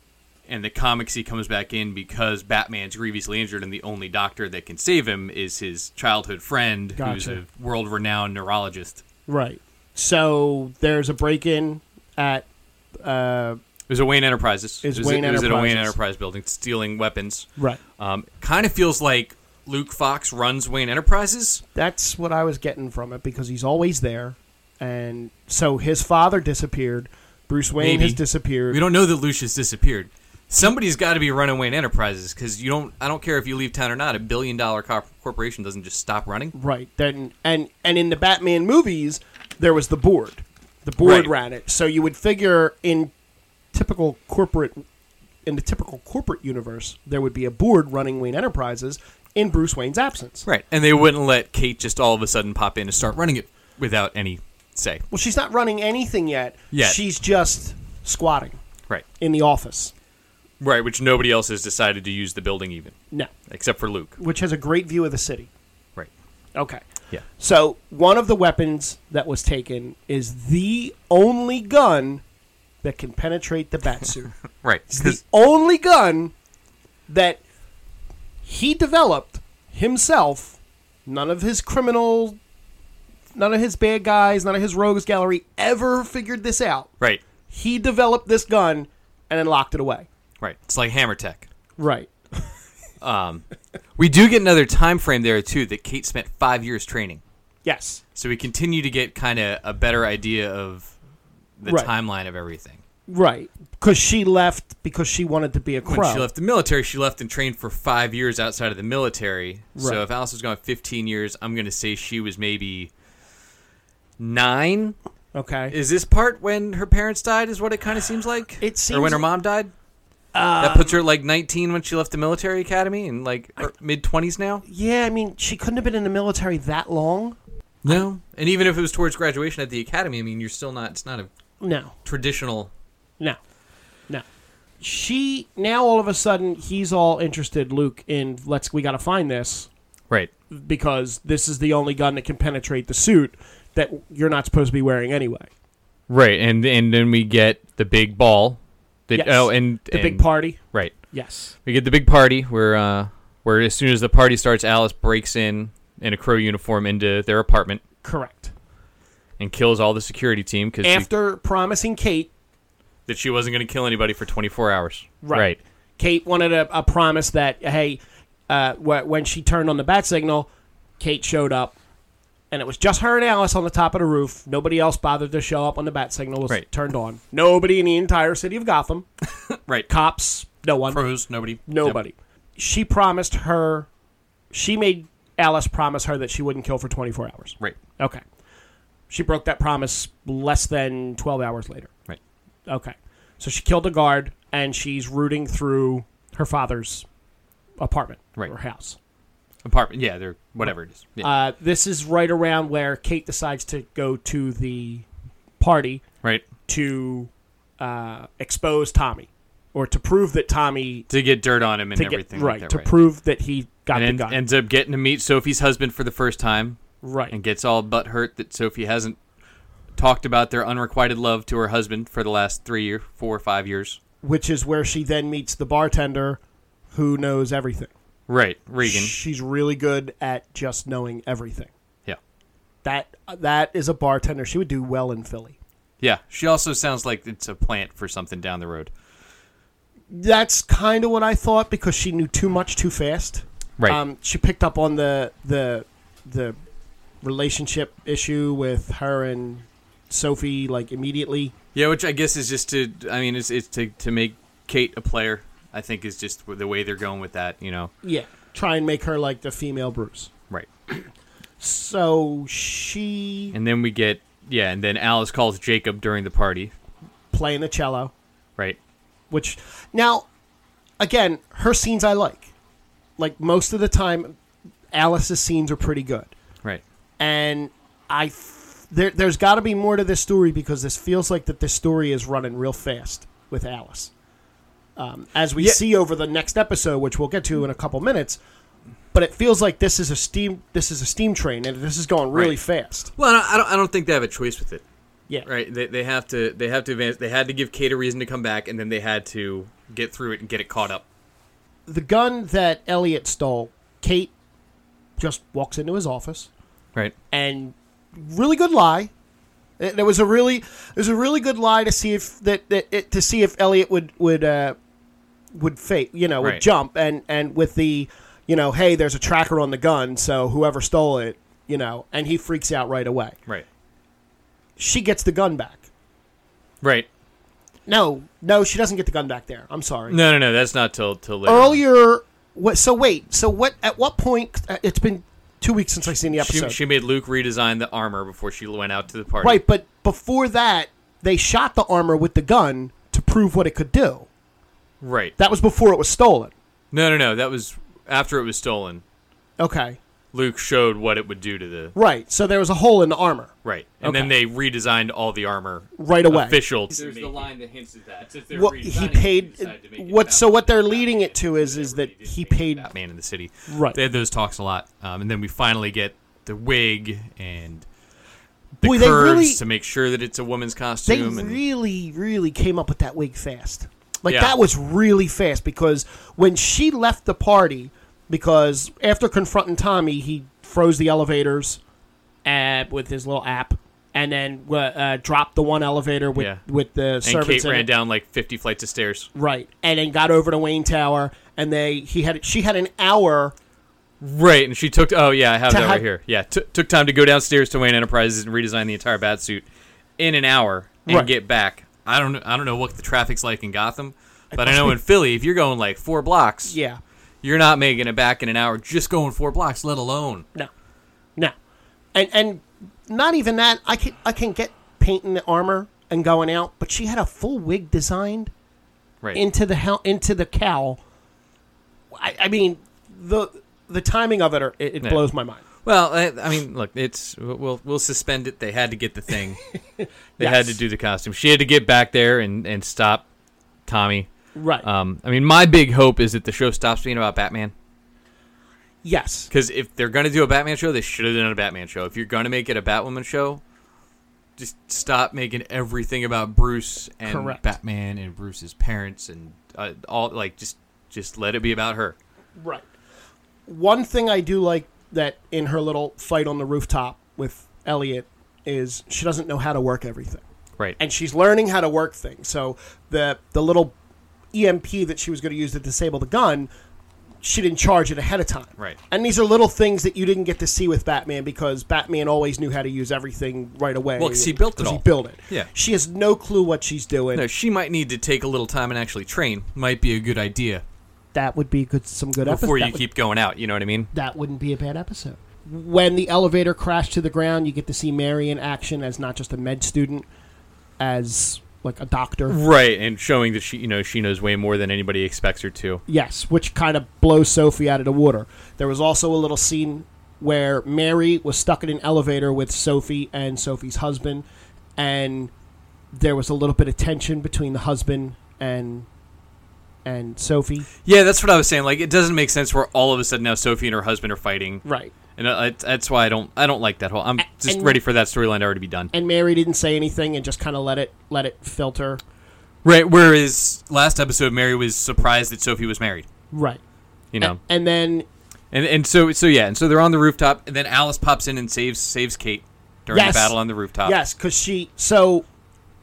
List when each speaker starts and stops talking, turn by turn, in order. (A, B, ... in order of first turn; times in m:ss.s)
0:00.5-0:09.0 A
0:07.0-0:07.4 B
0:09.3-0:12.4 B
0:13.0-0:13.6 B
0:13.9-0:17.5 A
0:14.8-0:16.0 B
0:18.0-0:21.6 A
0:21.7-0:28.8 B
0:27.8-0:36.5 A
0:36.5-0:43.1 B
0:41.0-0:41.3 A
0:43.7-0:44.8 B
0:45.4-0:50.5 B
0:50.4-0:55.0 A
0:55.1-0:58.6 B
0:56.7-0:57.0 A
0:59.2-0:59.9 B
1:00.6-1:03.0 A
1:03.5-1:04.2 A
1:04.2-1:05.5 B
1:06.5-1:12.2 B
1:12.8-1:14.3 B
1:14.6-1:15.2 A
1:14.9-1:16.3 B
1:17.1-1:17.4 B
1:18.4-1:22.4 B
1:23.3-1:26.9 B
1:27.5-1:30.1 B
1:30.4-1:31.5 A
1:31.8-1:32.5 B
1:33.0-1:33.4 A
1:34.0-1:37.2 A
1:37.6-1:38.0 B
1:38.1-1:40.9 A
1:41.6-1:42.8 A
1:41.6-1:41.9 B
1:43.1-1:46.3 B
1:45.8-1:52.9 A
1:49.8-1:50.0 B
1:54.2-1:55.0 A
1:55.3-1:55.7 B
1:55.7-1:59.7 A
1:58.6-1:59.3 B
2:00.3-2:01.0 B
2:00.6-2:04.6 A
2:04.6-2:08.0 B
2:07.8-2:11.3 A
2:11.6-2:11.9 B
2:12.0-2:12.7 A
2:14.8-2:19.7 B
2:20.5-2:25.5 B
2:26.1-2:30.9 A
2:29.1-2:30.6 B
2:31.1-2:31.5 B
2:31.6-2:37.8 A
2:38.0-2:38.5 B
2:39.4-2:41.1 A
2:40.8-2:42.3 B
2:43.1-2:45.6 A
2:45.2-2:50.5 B
2:51.0-2:51.8 B
2:52.5-2:59.0 B
2:59.9-3:01.0 B
3:00.9-3:02.0 A
3:01.6-3:03.9 B
3:04.5-3:08.2 B
3:09.1-3:11.9 B
3:12.7-3:17.0 B
3:17.8-3:19.0 B
3:19.6-3:21.3 A
3:21.2-3:25.0 B
3:25.6-3:26.0 B
3:26.7-3:31.1 B
3:31.1-3:32.9 A
3:31.9-3:34.4 B
3:33.9-3:36.8 A
3:37.0-3:37.3 B
3:37.3-3:39.2 A
3:40.0-3:44.0 A
3:44.2-3:46.4 B
3:46.9-3:47.9 B
3:48.3-3:49.1 A
3:48.8-3:51.7 B
3:52.8-3:55.6 B
3:56.0-3:58.9 A
4:00.1-4:06.6 B
4:07.2-4:11.5 B
4:11.7-4:17.9 A
4:18.0-4:20.3 B
4:21.6-4:23.6 B
4:23.5-4:26.7 A
4:27.3-4:28.1 B
4:29.3-4:30.3 B
4:31.0-4:32.5 B
4:33.2-4:34.4 B
4:34.9-4:36.3 B
4:37.2-4:44.1 B
4:45.0-4:48.4 B
4:49.1-4:53.1 B
4:52.3-4:52.6 A
4:53.1-4:54.8 A
4:55.4-5:01.0 A
5:01.9-5:04.3 B
5:05.2-5:06.5 B
5:07.3-5:09.1 B
5:09.8-5:14.8 B
5:15.5-5:23.4 B
5:24.8-5:25.8 B
5:26.8-5:27.1 A
5:27.9-5:30.2 B
5:30.1-5:31.8 A
5:31.4-5:36.8 B
5:36.3-5:39.6 A
5:39.4-5:44.3 B
5:45.0-5:45.3 A
5:45.4-5:46.5 B
5:46.9-5:49.0 A
5:49.6-5:50.0 B
5:50.3-5:51.9 A
5:51.9-5:54.3 B
5:53.6-5:57.6 A
5:56.0-5:56.6 B
5:56.9-6:02.8 C
5:58.5-6:02.9 B
6:02.8-6:07.8 A
6:03.7-6:04.0 B
6:08.8-6:11.6 A
6:08.8-6:09.6 B
6:11.0-6:21.8 B
6:14.3-6:14.5 A
6:22.4-6:27.9 B
6:26.3-6:26.6 A
6:27.2-6:29.3 A
6:29.3-6:33.5 B
6:34.2-6:39.6 A
6:35.7-6:36.0 B
6:40.2-6:46.8 A
6:41.0-6:41.3 B
6:44.5-6:45.0 B
6:46.6-6:47.0 B
6:47.4-6:50.4 A
6:52.1-6:58.5 B
6:59.3-7:01.0 B
7:02.1-7:05.6 B
7:05.8-7:09.6 A
7:10.0-7:10.8 B
7:10.4-7:13.2 A
7:13.9-7:14.3 A
7:14.5-7:14.8 B
7:14.8-7:17.7 A
7:19.0-7:19.5 B
7:19.5-7:23.6 A
7:24.6-7:32.2 A
7:27.2-7:27.6 B
7:32.6-7:32.8 B
7:33.7-7:40.4 B
7:41.0-7:43.9 B
7:44.5-7:46.7 B
7:47.4-7:57.4 B
7:54.2-7:55.7 A
7:57.3-8:00.8 A
8:01.3-8:03.0 B
8:02.4-8:04.1 A
8:04.1-8:10.2 B
8:11.0-8:12.6 B
8:12.5-8:16.0 A
8:16.1-8:24.4 B
8:25.0-8:25.5 B
8:26.1-8:29.1 B
8:30.0-8:30.9 B
8:31.0-8:34.8 A
8:34.8-8:35.1 B
8:35.4-8:39.1 A
8:37.4-8:38.0 B
8:39.1-8:42.2 B
8:42.8-8:46.3 A
8:46.5-8:46.8 B
8:47.3-8:47.6 A
8:47.4-8:48.3 B
8:48.7-8:54.2 A
8:53.1-8:55.4 B